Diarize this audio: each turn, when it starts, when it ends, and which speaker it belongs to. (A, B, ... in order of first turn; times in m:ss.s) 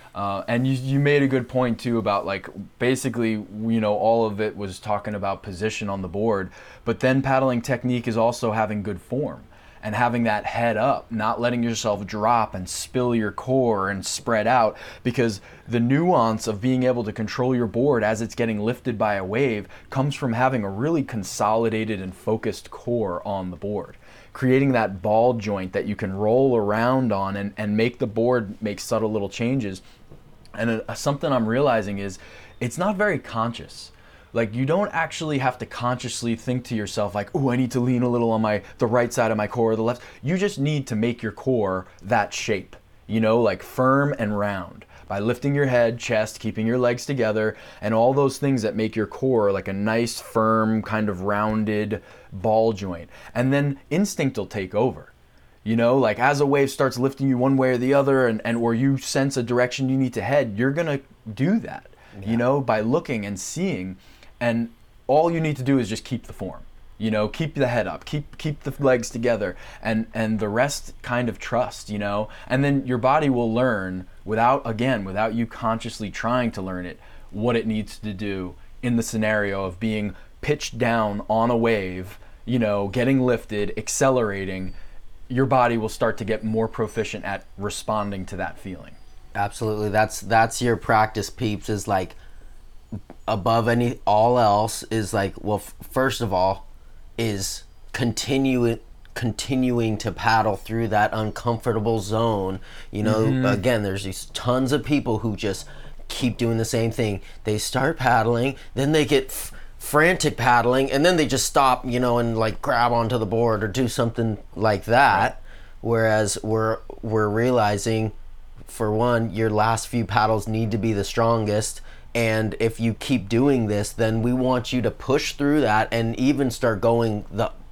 0:00.1-0:29.8 A
0:30.6-0:55.1 A
0:55.6-1:24.7 A
1:02.1-1:02.4 B
1:25.3-1:29.0 A
1:29.4-1:32.2 B
1:33.3-1:36.7 B
1:37.2-1:58.2 B
1:43.0-1:43.6 A
1:58.7-2:07.5 B